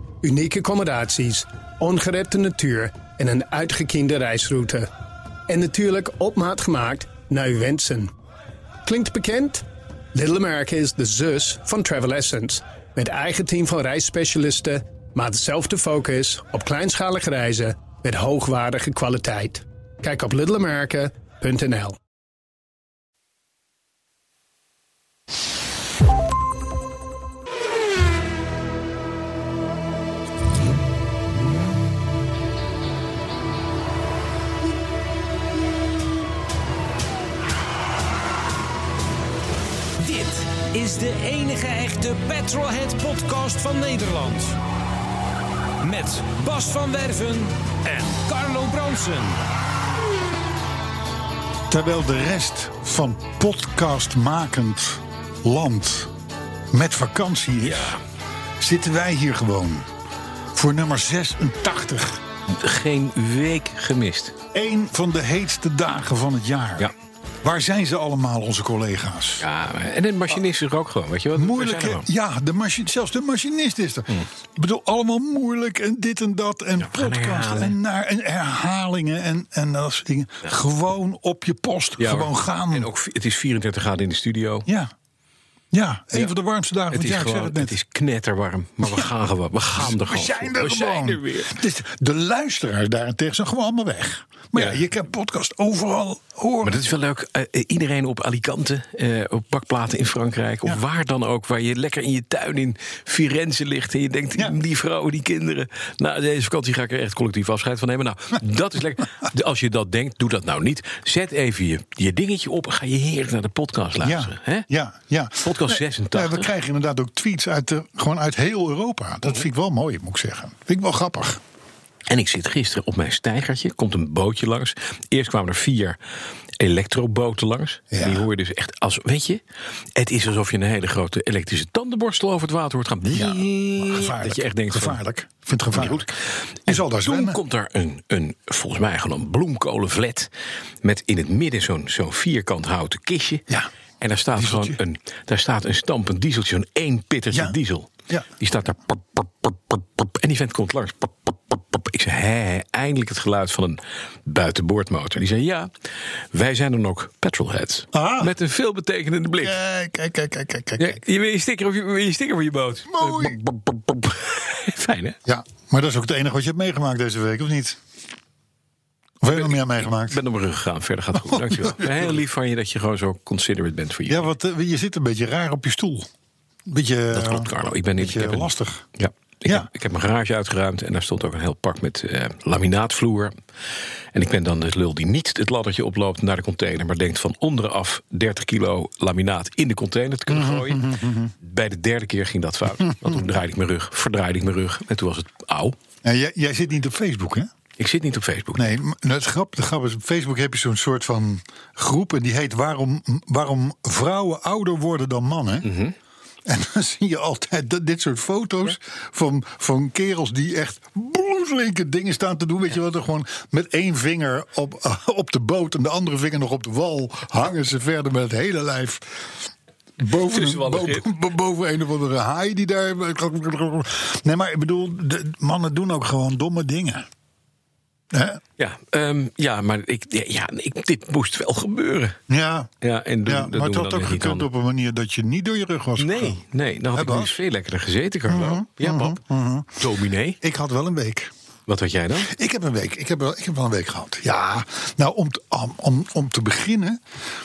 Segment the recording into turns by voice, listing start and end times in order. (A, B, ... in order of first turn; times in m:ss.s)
0:00.2-0:04.9 A
0:05.5-0:08.1 A
0:08.8-0:22.0 A
0:40.0-0:44.6 B
0:45.8-0:49.4 B
0:51.7-0:56.1 C
0:56.7-0:58.0 C
0:57.6-0:58.0 D
0:58.6-0:59.9 C
1:00.5-1:02.2 C
1:02.5-1:04.4 D
1:04.5-1:06.9 C
1:07.4-1:09.5 C
1:09.4-1:12.1 D
1:11.4-1:22.9 C
1:16.8-1:17.8 D
1:22.0-1:24.7 D
1:24.7-1:24.9 C
1:25.7-1:27.8 C
1:26.9-1:31.6 D
1:28.8-1:29.1 C
1:29.8-1:36.8 C
1:34.6-1:34.8 D
1:36.6-1:54.7 D
1:54.0-2:01.4 C
1:55.4-1:56.5 D
2:02.1-2:06.0 D
2:06.6-2:09.4 D
2:07.9-2:08.3 C
2:10.0-2:15.0 D
2:13.0-2:16.1 C
2:15.7-2:20.3 D
2:16.7-2:17.4 C
2:20.8-2:23.5 D
2:24.0-2:35.7 D
2:24.4-2:24.8 C
2:36.3-2:39.6 D
2:37.9-2:38.3 C
2:39.4-2:41.0 C
2:40.8-2:45.2 D
2:42.9-2:43.4 C
2:45.2-2:47.8 C
2:49.2-2:50.2 C
2:49.3-2:54.3 D
2:51.1-2:52.2 C
2:54.1-2:56.1 C
2:56.7-2:58.8 C
2:57.1-3:03.3 D
3:04.1-3:15.8 D
3:10.3-3:11.3 C
3:16.0-3:17.5 C
3:17.8-3:18.8 D
3:18.6-3:25.8 C
3:25.6-3:25.9 D
3:26.4-3:39.5 C
3:40.0-3:47.1 C
3:40.2-3:41.0 D
3:48.1-3:48.4 C
3:48.6-3:52.2 D
3:52.3-3:52.7 C
3:52.8-3:54.5 D
3:53.2-3:56.4 C
3:56.0-3:59.2 D
3:56.9-3:57.4 C
3:58.3-3:59.9 C
3:59.8-4:00.4 D
4:00.4-4:01.3 C
4:01.7-4:02.3 D
4:02.2-4:07.0 C